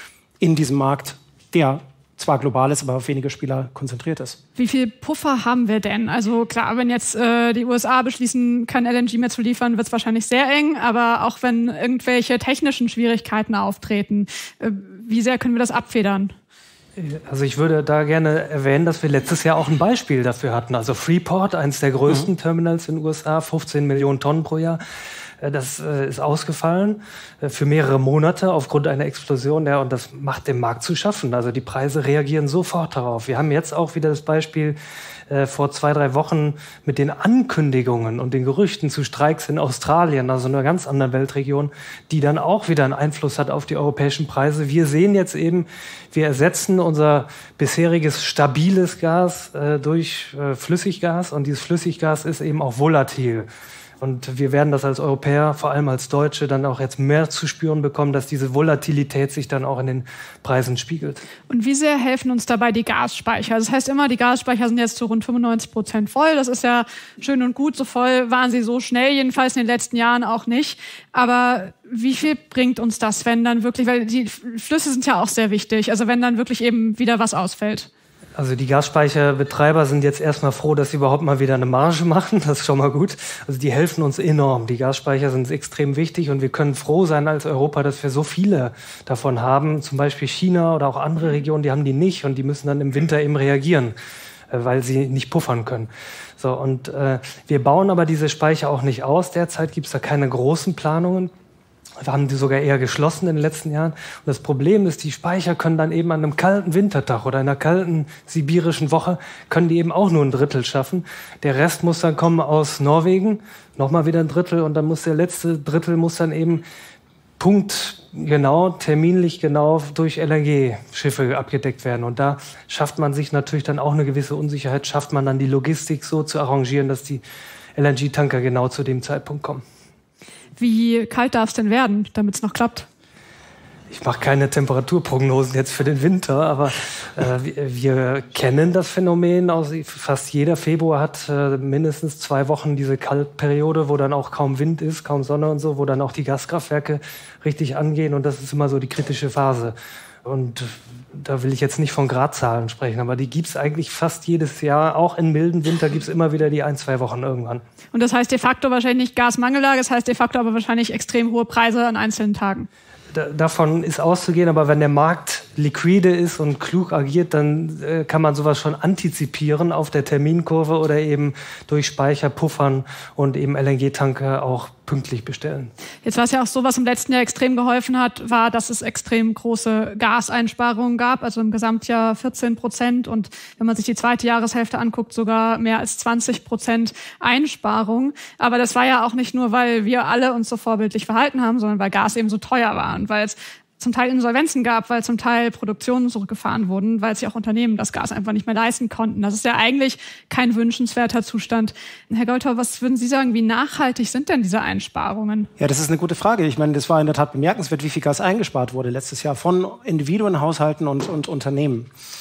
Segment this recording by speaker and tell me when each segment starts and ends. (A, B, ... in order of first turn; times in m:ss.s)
0:00.4-0:04.4 A
0:04.6-0:16.3 B
0:17.0-0:24.8 C
0:25.4-0:34.8 C
0:35.3-0:53.5 C
0:54.0-1:01.2 C
1:01.5-1:17.9 B
1:18.4-1:34.0 C
1:34.5-1:41.3 C
1:42.0-1:56.6 C
1:57.4-2:07.2 C
2:07.8-2:09.6 C
2:10.6-2:12.9 B
2:13.9-2:37.6 C
2:37.9-2:42.7 B
2:43.1-2:55.7 C
2:56.0-3:25.5 B
3:25.6-3:31.9 A